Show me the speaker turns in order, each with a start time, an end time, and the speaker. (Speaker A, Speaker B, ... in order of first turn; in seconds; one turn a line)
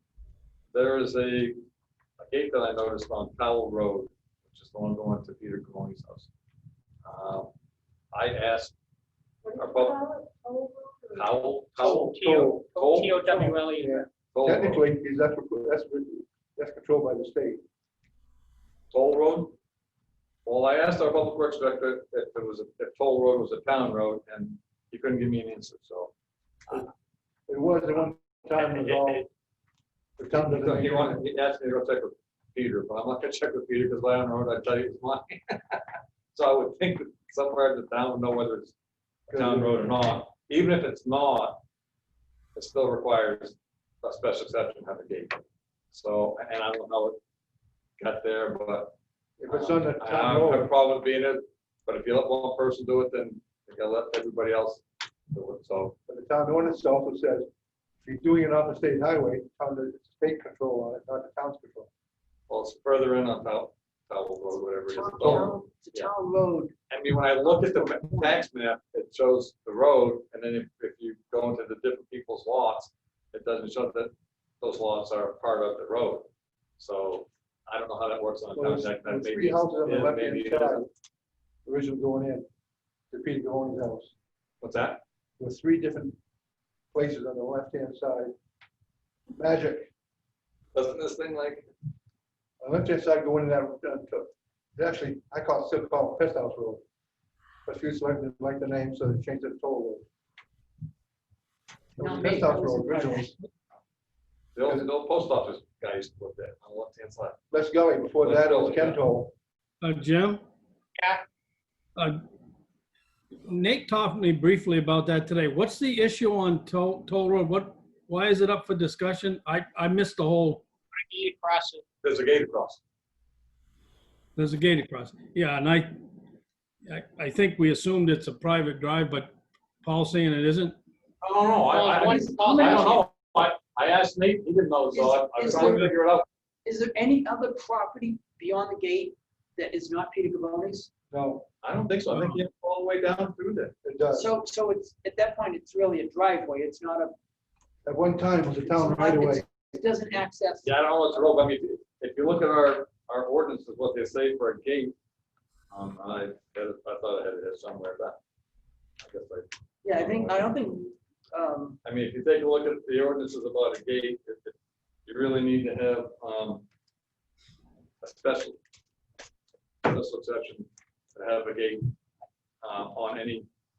Speaker A: 0.7-1.6
Speaker A: 2.2-6.3
Speaker A: 7.0-7.5
Speaker A: 8.1-8.7
Speaker A: 9.5-10.1
Speaker B: 10.3-10.7
Speaker A: 11.1-12.1
Speaker C: 11.8-14.1
Speaker D: 11.8-17.6
Speaker A: 12.7-13.1
Speaker A: 14.3-14.8
Speaker A: 18.9-19.5
Speaker A: 20.4-26.1
Speaker D: 27.5-29.3
Speaker A: 28.6-29.2
Speaker D: 30.2-31.2
Speaker A: 30.3-38.7
Speaker D: 39.3-39.9
Speaker A: 39.3-41.6
Speaker A: 42.5-47.2
Speaker A: 48.0-48.9
Speaker D: 49.4-50.7
Speaker A: 49.5-55.9
Speaker D: 56.1-57.5
Speaker D: 58.0-61.9
Speaker A: 62.5-66.1
Speaker B: 64.9-66.7
Speaker A: 66.9-80.9
Speaker B: 67.5-68.3
Speaker D: 78.5-80.9
Speaker D: 81.7-82.5
Speaker D: 83.1-84.1
Speaker A: 84.6-85.0
Speaker D: 85.4-86.2
Speaker D: 86.9-88.3
Speaker D: 89.4-89.9
Speaker A: 90.7-91.7
Speaker D: 92.6-96.8
Speaker D: 97.7-100.0
Speaker D: 102.0-103.3
Speaker B: 102.0-103.3
Speaker A: 104.5-107.3
Speaker D: 107.5-109.3
Speaker A: 108.2-109.0
Speaker E: 109.8-110.4
Speaker C: 111.0-111.2
Speaker E: 113.5-120.6
Speaker C: 120.9-121.8
Speaker A: 122.0-122.8
Speaker E: 124.3-125.9
Speaker E: 126.9-130.8
Speaker A: 131.2-136.2
Speaker C: 131.7-133.0
Speaker B: 131.9-133.0
Speaker B: 134.9-135.9
Speaker B: 136.6-140.9
Speaker D: 141.1-141.4
Speaker A: 141.6-143.7
Speaker E: 142.1-142.4
Speaker D: 143.8-144.3
Speaker B: 144.1-147.1
Speaker D: 147.8-149.4
Speaker B: 148.7-150.7
Speaker A: 150.6-154.9
Speaker A: 155.7-158.2
Speaker A: 159.0-160.5
Speaker B: 159.8-161.8
Speaker A: 161.8-164.5
Speaker A: 165.1-166.7
Speaker A: 168.0-168.6
Speaker A: 169.8-171.9
Speaker A: 172.6-173.5